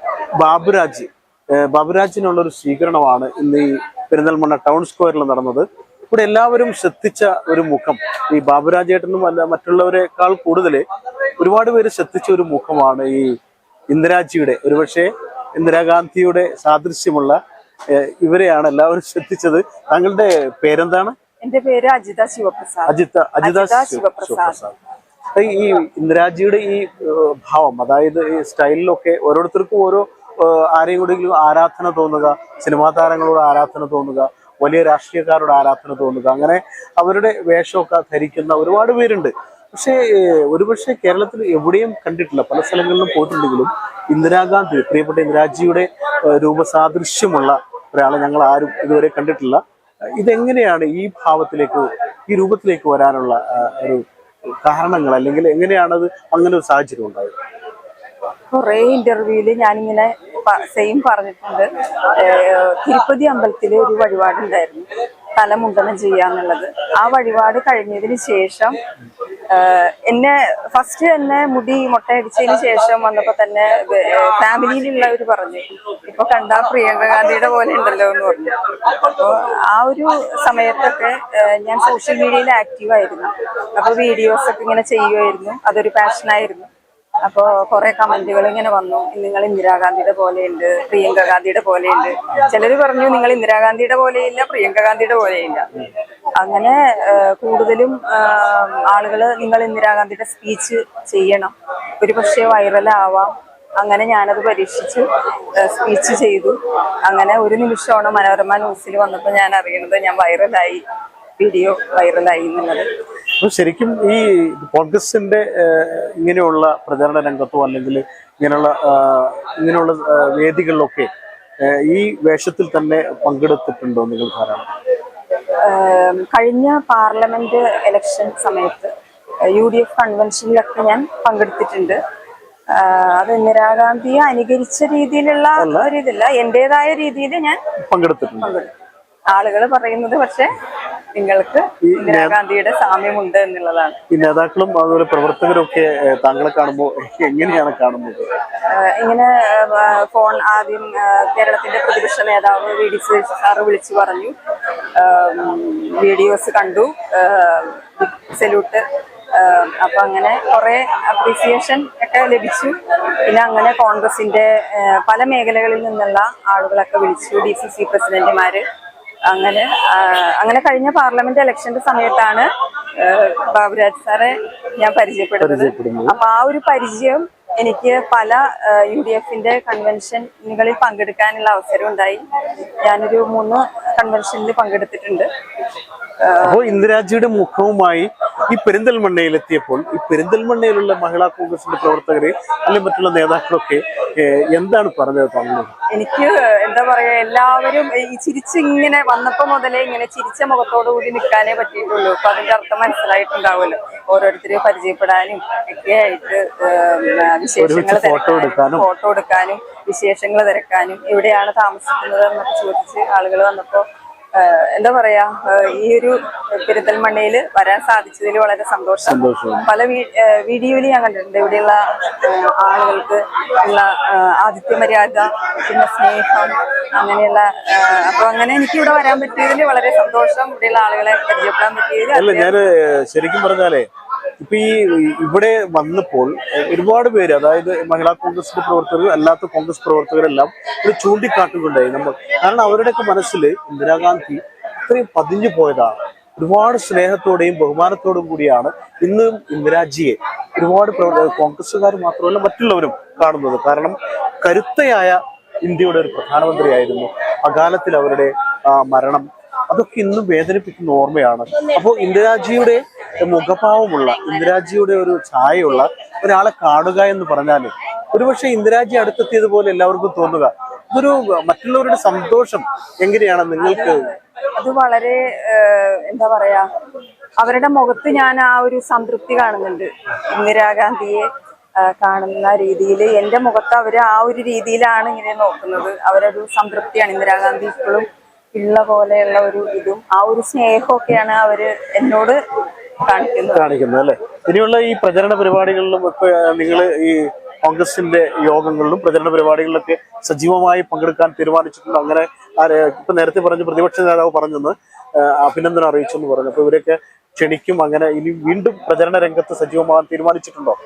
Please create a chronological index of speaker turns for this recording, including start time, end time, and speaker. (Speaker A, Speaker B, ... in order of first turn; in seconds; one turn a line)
Speaker A: 0.4-10.8
Speaker A: 11.4-13.4
Speaker A: 13.9-21.1
Speaker B: 21.4-24.6
Speaker A: 22.9-24.8
Speaker A: 25.3-49.6
Speaker A: 50.1-54.0
Speaker A: 54.6-57.3
Speaker B: 58.5-68.8
Speaker B: 69.5-86.7
Speaker B: 87.2-95.7
Speaker B: 96.4-110.8
Speaker B: 111.4-112.9
Speaker A: 113.4-121.1
Speaker A: 121.6-124.7
Speaker B: 125.6-128.9
Speaker B: 129.5-132.0
Speaker B: 132.7-137.6
Speaker A: 135.6-135.9
Speaker A: 137.9-138.5
Speaker B: 138.4-138.7
Speaker B: 139.3-140.5
Speaker B: 141.1-144.0
Speaker A: 141.8-142.4
Speaker A: 144.1-148.3
Speaker B: 148.7-154.3
Speaker B: 154.9-158.8
Speaker B: 159.3-168.6
Speaker B: 169.2-182.2
Speaker A: 175.4-176.2
Speaker B: 182.8-185.3
Speaker B: 186.2-186.8
Speaker A: 186.4-195.7
Speaker B: 195.9-232.5
Speaker A: 207.6-208.9
Speaker A: 219.0-219.7
Speaker A: 232.1-233.9
Speaker A: 234.4-274.1
Speaker B: 273.6-276.7
Speaker B: 277.4-281.3
Speaker B: 281.8-292.4
Speaker B: 293.0-293.7
Speaker A: 293.5-310.8